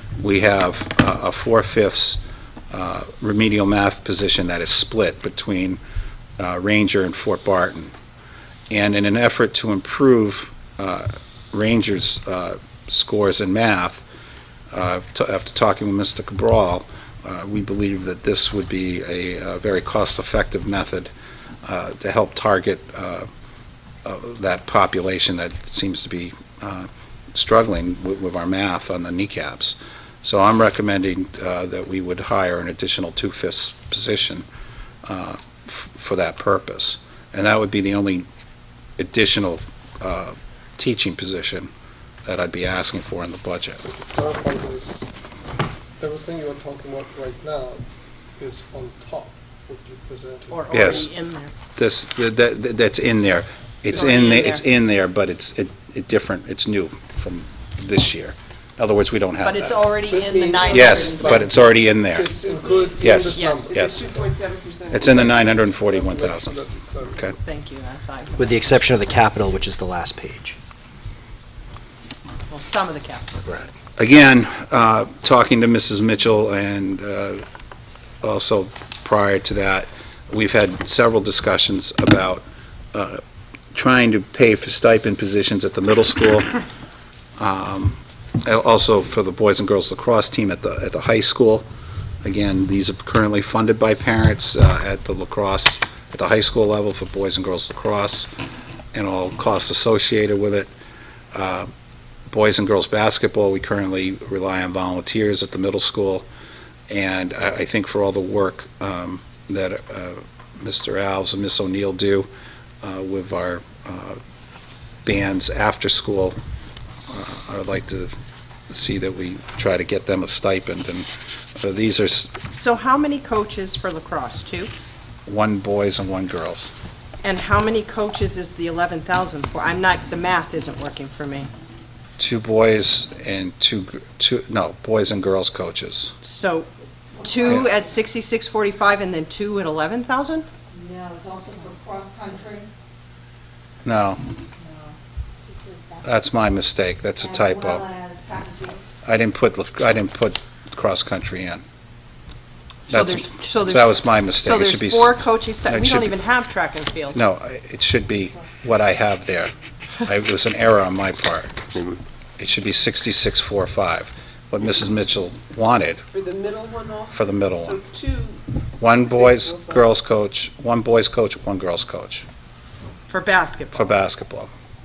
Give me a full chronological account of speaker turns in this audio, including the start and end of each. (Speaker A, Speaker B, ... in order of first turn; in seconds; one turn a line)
Speaker A: 0.2-5.8
Speaker A: 6.4-7.9
Speaker A: 8.7-14.0
Speaker A: 14.7-21.1
Speaker A: 21.6-23.3
Speaker A: 24.0-34.5
Speaker A: 35.0-38.3
Speaker A: 39.0-41.7
Speaker A: 42.2-43.8
Speaker B: 43.8-45.1
Speaker B: 46.0-47.9
Speaker B: 48.4-51.1
Speaker C: 50.5-51.5
Speaker A: 50.7-51.1
Speaker A: 51.8-59.8
Speaker C: 53.9-54.6
Speaker C: 59.4-61.5
Speaker B: 60.1-64.3
Speaker A: 60.7-62.3
Speaker D: 62.4-65.3
Speaker A: 63.0-64.0
Speaker C: 63.4-63.7
Speaker A: 64.9-66.6
Speaker B: 65.0-67.3
Speaker C: 67.3-68.6
Speaker E: 68.4-70.6
Speaker C: 72.5-73.6
Speaker A: 74.0-77.4
Speaker A: 78.2-83.2
Speaker A: 83.7-86.5
Speaker A: 87.4-91.7
Speaker A: 92.2-98.3
Speaker A: 98.9-100.7
Speaker A: 101.3-101.7
Speaker A: 102.3-106.3
Speaker A: 106.9-112.3
Speaker A: 112.8-114.2
Speaker A: 115.0-116.4
Speaker A: 117.1-118.1
Speaker A: 118.7-122.4
Speaker C: 122.5-124.7
Speaker A: 125.3-126.7
Speaker C: 127.2-131.5
Speaker A: 132.2-136.1
Speaker C: 136.2-140.5
Speaker F: 140.7-142.7
Speaker A: 143.8-144.2
Speaker F: 144.6-145.0
Speaker F: 145.6-146.0
Speaker A: 146.0-147.9
Speaker F: 147.2-148.8
Speaker A: 149.0-151.6
Speaker C: 152.9-157.2
Speaker A: 152.9-156.1
Speaker A: 157.1-161.7
Speaker A: 162.4-166.0
Speaker D: 166.1-169.9
Speaker A: 167.1-167.8
Speaker A: 168.8-172.3
Speaker C: 173.1-173.9
Speaker A: 173.7-174.5